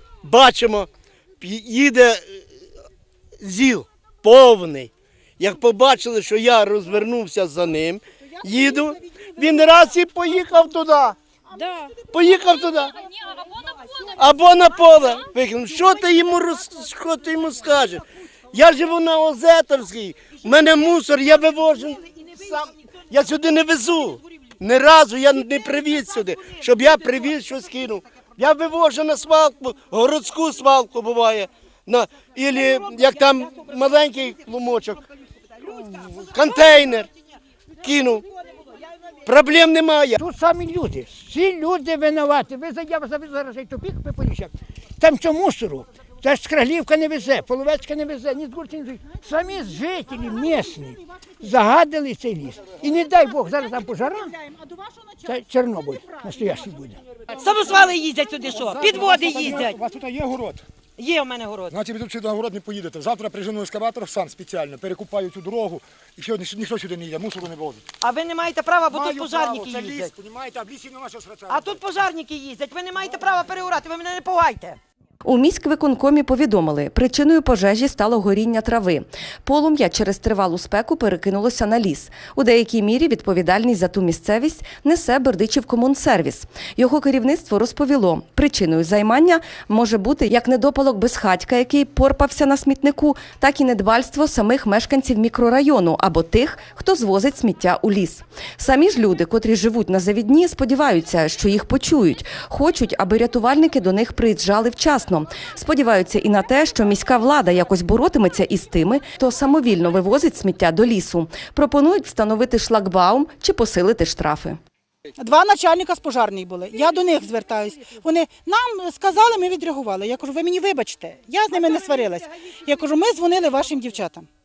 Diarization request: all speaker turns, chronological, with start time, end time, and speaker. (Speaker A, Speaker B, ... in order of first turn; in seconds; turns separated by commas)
Speaker A: 0.2-0.9, Speaker A: 1.4-2.5, Speaker A: 3.4-11.2, Speaker B: 8.3-10.8, Speaker B: 11.5-12.9, Speaker A: 12.1-12.9, Speaker C: 13.4-14.1, Speaker A: 14.2-35.0, Speaker C: 20.4-23.1, Speaker C: 23.7-24.2, Speaker C: 25.3-27.6, Speaker C: 32.6-33.7, Speaker C: 35.6-37.0, Speaker A: 36.2-37.1, Speaker A: 37.8-38.2, Speaker C: 37.9-38.8, Speaker A: 39.2-40.2, Speaker D: 40.2-54.3, Speaker B: 49.0-51.5, Speaker B: 52.6-57.5, Speaker D: 55.2-57.0, Speaker C: 57.4-59.8, Speaker E: 58.7-60.6, Speaker C: 61.0-61.8, Speaker E: 61.7-67.8, Speaker C: 68.0-70.1, Speaker E: 68.9-71.6, Speaker C: 71.5-74.8, Speaker F: 75.2-114.6, Speaker B: 115.2-124.3